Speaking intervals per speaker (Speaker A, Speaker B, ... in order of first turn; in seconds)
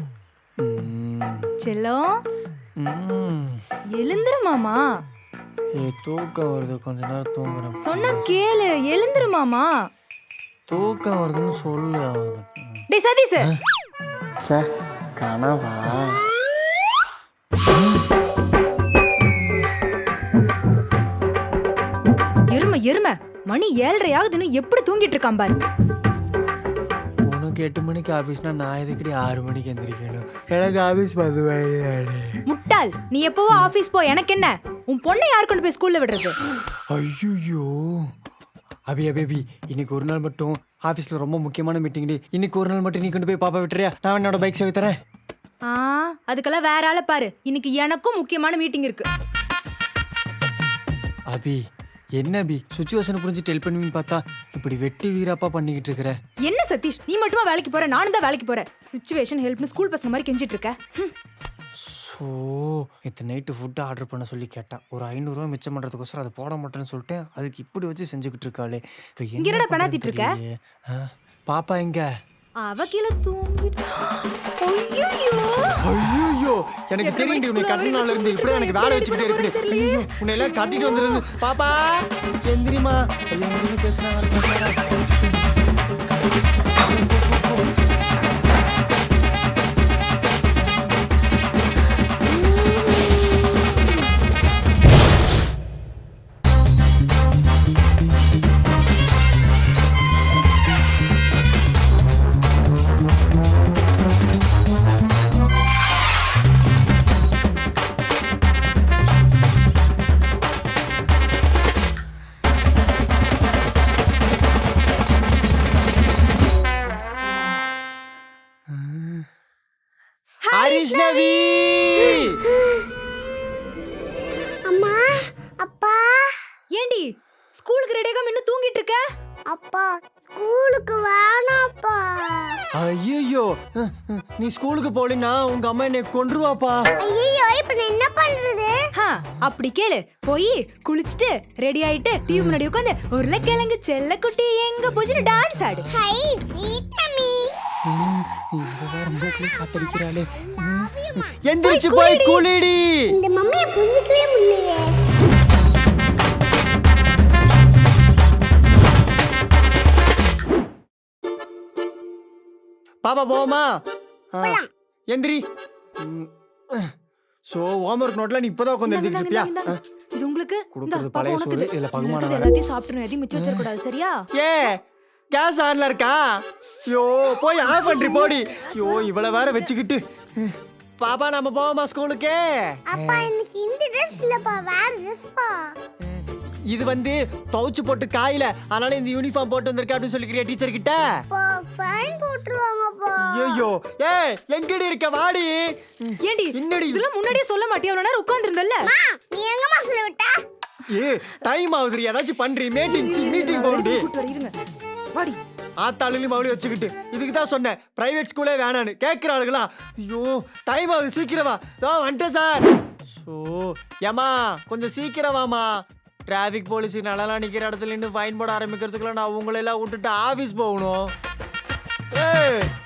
Speaker A: 0.6-1.5, 2.8-3.6, 5.7-8.4, 10.7-12.8, 15.2-16.2, 19.4-19.6, 27.2-32.4, 36.7-38.0, 38.9-44.9, 51.3-51.6, 52.2-56.1, 61.8-72.1, 75.8-85.5, 86.8-87.7, 118.7-119.3, 120.5-122.4, 132.7-136.8, 142.3-142.6, 145.4-146.1, 147.9-153.1, 163.0-163.8, 164.3-165.4, 166.0-166.9, 167.5-169.8, 170.7-172.5, 173.3-173.7, 174.3-183.3, 186.0-191.0, 193.2-197.1, 200.9-204.1, 205.8-221.1, 222.1-222.7
Speaker B: 1.6-2.0, 4.0-4.8, 7.8-9.7, 12.9-13.5, 22.5-25.6, 32.5-36.4, 45.6-49.1, 56.4-61.1, 69.4-70.3, 72.6-75.8, 77.0-81.4, 120.4-121.6, 126.7-129.0, 138.9-145.9, 151.6-152.4, 168.8-174.2, 177.6-179.7, 196.2-198.9, 202.8-204.5
Speaker C: 92.4-93.3, 122.2-122.9, 124.6-126.3, 129.5-132.6, 137.0-138.7, 145.9-147.5, 149.7-151.3, 153.1-154.9, 164.4-164.7, 182.9-185.6, 191.3-193.7, 198.8-200.4